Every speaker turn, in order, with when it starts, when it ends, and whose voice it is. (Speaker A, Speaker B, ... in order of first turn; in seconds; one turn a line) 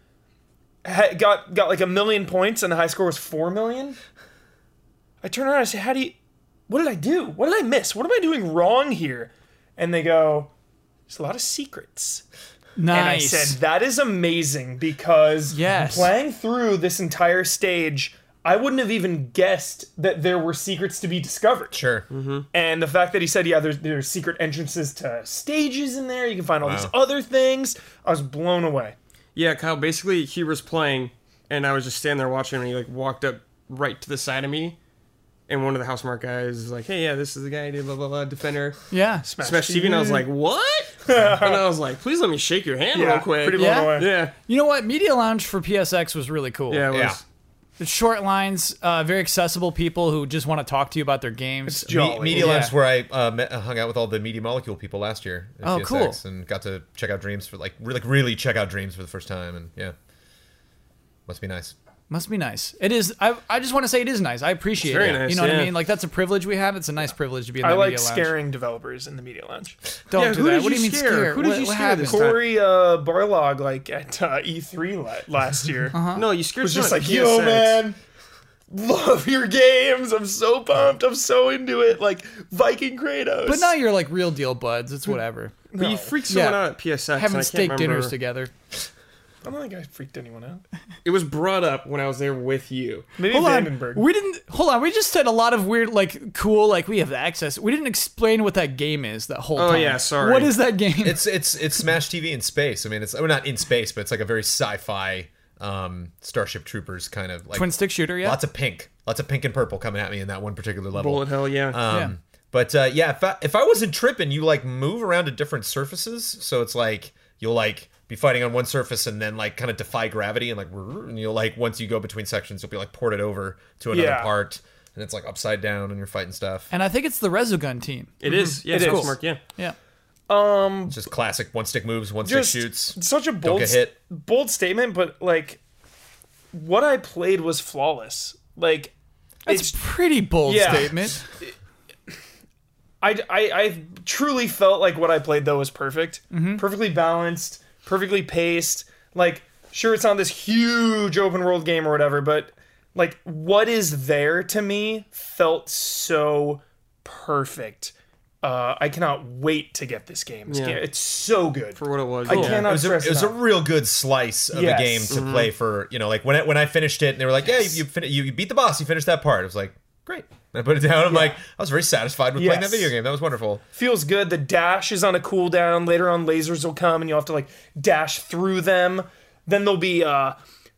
Speaker A: 0.8-4.0
Speaker A: 5.2-10.5
Speaker A: 11.1-12.2
Speaker B: 12.8-13.6
Speaker A: 12.9-21.8
Speaker B: 15.5-16.1
Speaker C: 21.7-22.1
Speaker D: 22.1-22.5
Speaker A: 22.5-28.9
Speaker C: 26.6-26.9
Speaker D: 29.3-34.8
Speaker D: 35.5-38.8
Speaker B: 38.9-39.3
Speaker A: 39.2-40.3
Speaker D: 39.4-44.3
Speaker A: 41.0-41.7
Speaker A: 42.9-44.1
Speaker B: 43.5-46.9
Speaker D: 46.7-47.2
Speaker C: 46.9-47.2
Speaker B: 47.8-52.7
Speaker A: 51.6-52.6
Speaker C: 51.9-59.9
Speaker B: 55.6-56.2
Speaker C: 61.3-61.7
Speaker B: 62.1-68.3
Speaker D: 64.8-65.7
Speaker A: 67.6-69.8
Speaker B: 70.1-72.2
Speaker D: 70.1-72.5
Speaker A: 72.0-76.0
Speaker B: 75.9-76.3
Speaker D: 76.1-77.8
Speaker A: 76.6-78.0
Speaker A: 78.7-83.7
Speaker B: 83.4-85.5
Speaker A: 85.7-86.1
Speaker D: 85.8-88.1
Speaker B: 86.3-86.6
Speaker B: 87.1-88.5
Speaker A: 89.4-90.6
Speaker D: 91.0-93.1
Speaker A: 93.2-94.0
Speaker B: 93.3-101.2
Speaker D: 99.5-100.5
Speaker C: 101.0-126.7
Speaker B: 107.5-108.4
Speaker D: 110.9-111.8
Speaker B: 111.9-112.1
Speaker A: 123.9-124.3
Speaker B: 126.7-129.8
Speaker D: 128.2-129.4
Speaker A: 128.7-129.2
Speaker A: 130.3-131.0
Speaker C: 130.9-133.9
Speaker A: 132.2-135.6
Speaker A: 136.5-138.9
Speaker A: 139.4-139.8
Speaker B: 139.4-141.2
Speaker A: 140.4-141.5
Speaker A: 143.0-163.4
Speaker B: 146.3-146.6
Speaker D: 160.5-160.8
Speaker D: 161.8-162.7
Speaker C: 162.3-173.6
Speaker A: 164.5-165.1
Speaker D: 165.1-165.5
Speaker A: 171.1-171.4
Speaker A: 172.3-172.9
Speaker A: 173.7-180.4